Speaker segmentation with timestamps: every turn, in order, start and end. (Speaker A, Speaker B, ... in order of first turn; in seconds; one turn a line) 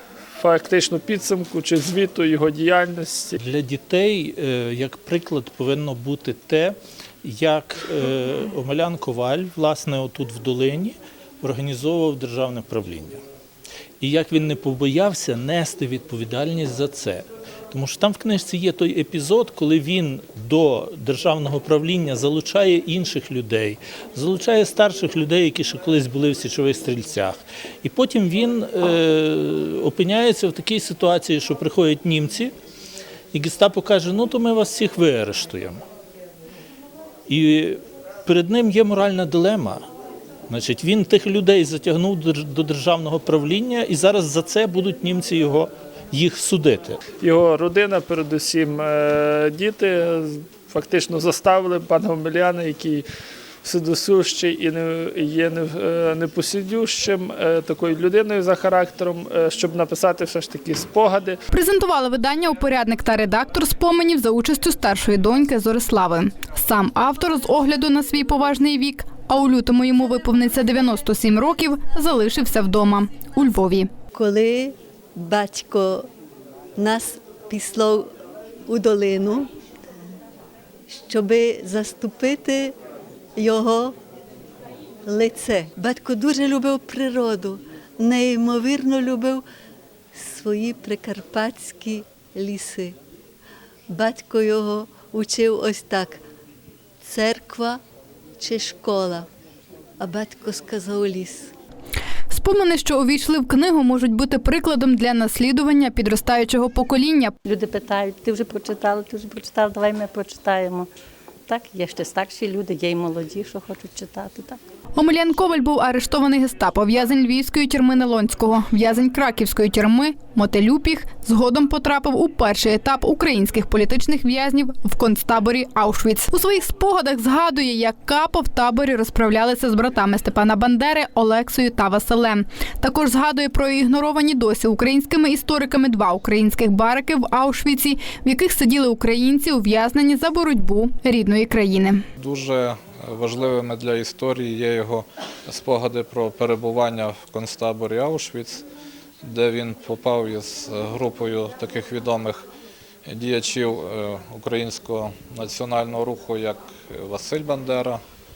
Speaker A: 0.3-3.4
Speaker B: 3.4-13.2
Speaker B: 14.0-32.5
Speaker B: 33.3-35.8
Speaker B: 37.3-39.9
Speaker B: 40.5-47.0
Speaker A: 47.2-53.0
Speaker A: 53.6-61.4
Speaker C: 61.5-73.9
Speaker D: 74.1-76.0
Speaker D: 76.8-78.1
Speaker D: 78.7-79.5
Speaker D: 80.9-82.7
Speaker D: 83.3-83.9
Speaker D: 85.0-89.4
Speaker D: 90.1-92.9
Speaker D: 93.9-96.2
Speaker D: 97.0-97.8
Speaker D: 98.4-99.3
Speaker D: 100.0-101.5
Speaker C: 102.3-107.3
Speaker E: 107.5-110.9
Speaker E: 111.5-114.6
Speaker C: 115.0-142.0
Speaker F: 142.2-148.7
Speaker F: 149.2-152.5
Speaker F: 153.0-158.0